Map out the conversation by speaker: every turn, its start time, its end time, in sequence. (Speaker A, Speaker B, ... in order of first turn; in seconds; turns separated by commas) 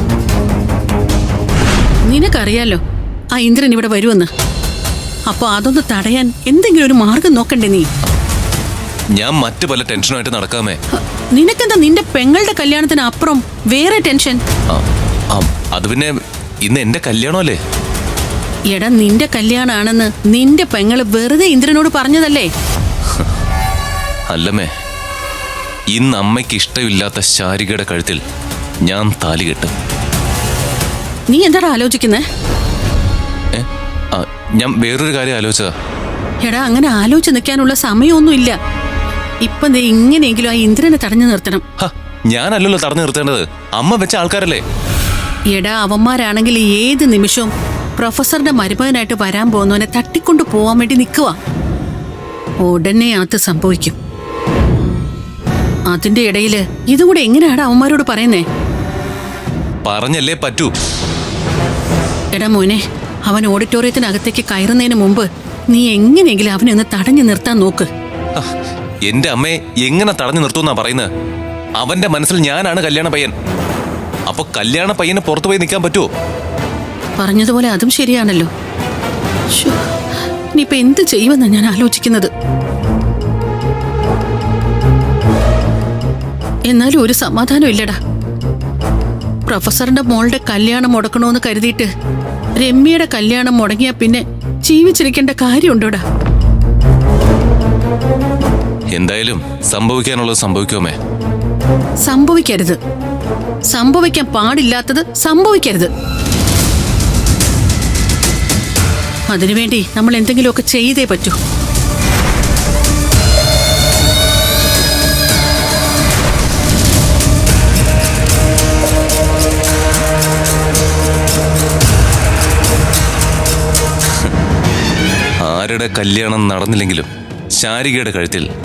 Speaker A: 2.1-2.8, Speaker A: 3.3-4.3, Speaker A: 5.3-7.9, Speaker B: 9.1-10.8, Speaker A: 11.3-14.4, Speaker B: 14.7-16.1, Speaker B: 16.6-17.6, Speaker A: 18.7-22.5, Speaker B: 24.3-24.7, Speaker B: 25.9-28.2, Speaker B: 28.8-29.7, Speaker A: 31.3-32.2, Speaker B: 33.5-35.7, Speaker A: 36.4-38.5, Speaker A: 39.4-41.6, Speaker B: 41.8-44.6, Speaker A: 45.5-51.4, Speaker A: 52.6-54.0, Speaker A: 55.9-58.4, Speaker B: 59.8-60.7, Speaker A: 62.3-67.9, Speaker B: 69.1-71.1, Speaker B: 71.8-73.3, Speaker B: 74.3-76.1, Speaker A: 77.2-78.5, Speaker A: 79.5-79.8, Speaker A: 80.5-82.3, Speaker A: 86.7-88.0, Speaker A: 89.5-91.9, Speaker A: 92.6-96.0, Speaker B: 98.9-101.0, Speaker A: 102.0-102.8, Speaker A: 103.7-105.9, Speaker A: 109.3-111.3, Speaker B: 125.4-128.4